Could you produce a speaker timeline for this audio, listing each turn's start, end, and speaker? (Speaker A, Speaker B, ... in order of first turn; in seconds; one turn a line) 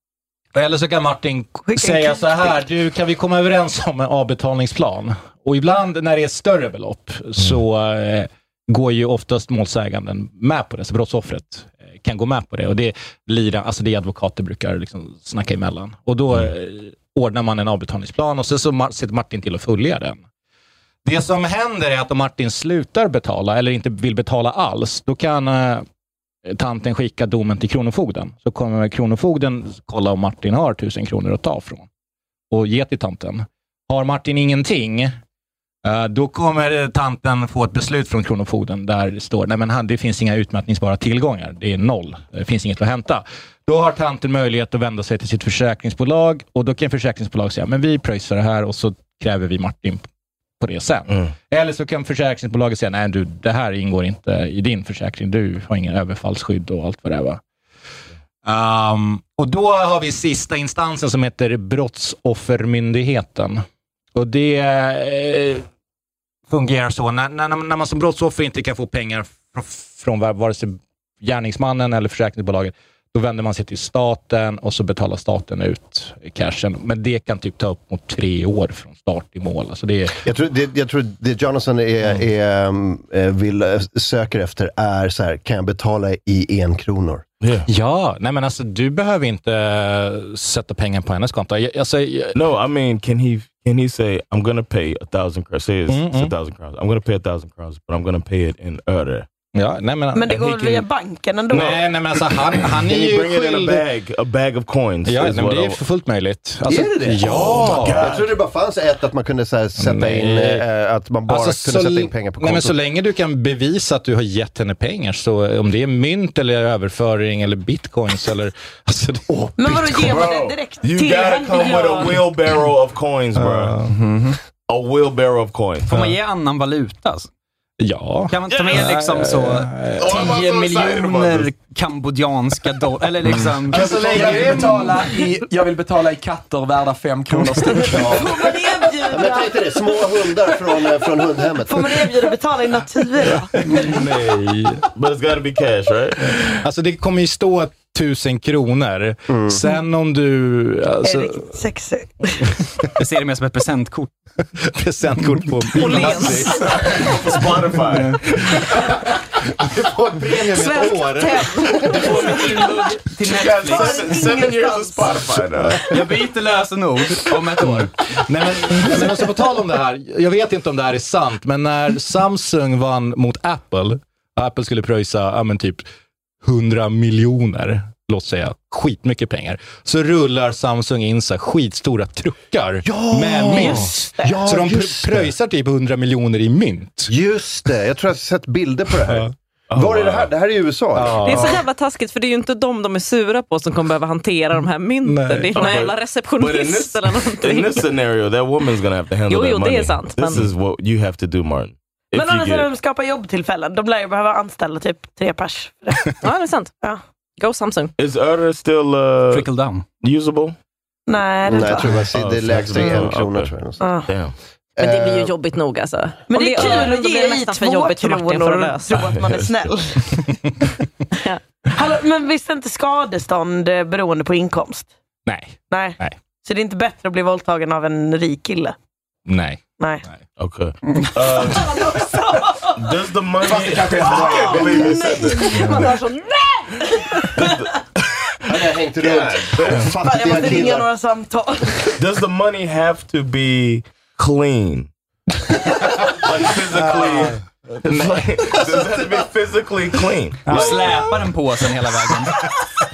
Speaker A: 0.5-20.2
Speaker B: 1.7-2.6
Speaker A: 21.1-25.9
Speaker A: 26.5-31.9
Speaker A: 32.5-35.2
Speaker A: 35.8-50.1
Speaker A: 50.6-57.4
Speaker A: 58.5-63.6
Speaker A: 64.2-65.7
Speaker A: 66.5-80.2
Speaker C: 80.2-87.2
Speaker D: 87.4-87.7
Speaker A: 87.7-92.4
Speaker D: 92.3-99.3
Speaker A: 95.9-96.3
Speaker A: 99.5-100.9
Speaker B: 100.1-101.8
Speaker A: 101.5-103.8
Speaker D: 101.5-105.8
Speaker A: 105.0-108.1
Speaker C: 106.7-112.8
Speaker D: 107.2-108.2
Speaker A: 109.8-110.6
Speaker A: 111.3-120.2
Speaker B: 119.6-122.3
Speaker D: 119.9-123.8
Speaker A: 123.4-123.9
Speaker E: 123.9-124.4
Speaker D: 124.7-126.0
Speaker F: 125.9-127.3
Speaker A: 127.8-130.2
Speaker F: 128.3-135.1
Speaker D: 128.5-128.9
Speaker D: 130.0-131.5
Speaker E: 133.5-138.6
Speaker A: 133.7-135.0
Speaker B: 137.8-140.8
Speaker C: 139.1-142.1
Speaker B: 141.4-143.5
Speaker A: 143.4-144.8
Speaker D: 144.9-146.6
Speaker A: 146.6-151.5
Speaker C: 149.3-149.6
Speaker B: 151.0-152.5
Speaker F: 153.0-154.1
Speaker A: 154.6-156.6
Speaker G: 155.8-156.6
Speaker D: 156.7-158.2
Speaker A: 159.6-162.0
Speaker B: 161.0-162.7
Speaker F: 161.9-164.2
Speaker D: 162.0-162.5
Speaker D: 163.2-165.9
Speaker B: 163.6-165.3
Speaker F: 165.8-167.9
Speaker A: 167.8-175.8
Speaker A: 176.4-187.1
Speaker C: 182.8-185.3
Speaker B: 183.5-184.4
Speaker C: 187.1-191.6
Speaker A: 189.1-189.3
Speaker D: 189.7-190.3
Speaker A: 190.9-191.6
Speaker G: 191.2-197.8
Speaker A: 195.1-195.7
Speaker D: 195.5-202.7
Speaker G: 199.3-200.5
Speaker B: 202.1-206.1
Speaker G: 206.2-206.7
Speaker G: 207.4-207.9
Speaker D: 208.0-210.6
Speaker F: 209.3-209.8
Speaker B: 211.1-212.0
Speaker C: 211.4-213.8
Speaker D: 212.1-213.5
Speaker B: 213.8-214.1
Speaker D: 214.1-214.3
Speaker C: 214.8-215.3
Speaker G: 214.8-219.0
Speaker B: 216.3-220.2
Speaker D: 219.0-219.7
Speaker B: 221.7-224.9
Speaker A: 225.3-226.2
Speaker B: 225.7-228.8
Speaker A: 229.3-230.2
Speaker D: 230.4-231.9
Speaker B: 231.3-232.8
Speaker D: 232.8-235.8
Speaker E: 233.4-235.0
Speaker B: 234.1-236.0
Speaker G: 235.7-236.8
Speaker B: 236.7-237.6
Speaker D: 237.4-237.7
Speaker C: 238.5-240.9
Speaker D: 239.0-239.9
Speaker B: 240.0-242.0
Speaker D: 242.0-244.9
Speaker D: 246.1-251.1
Speaker A: 246.7-248.9
Speaker F: 250.5-252.3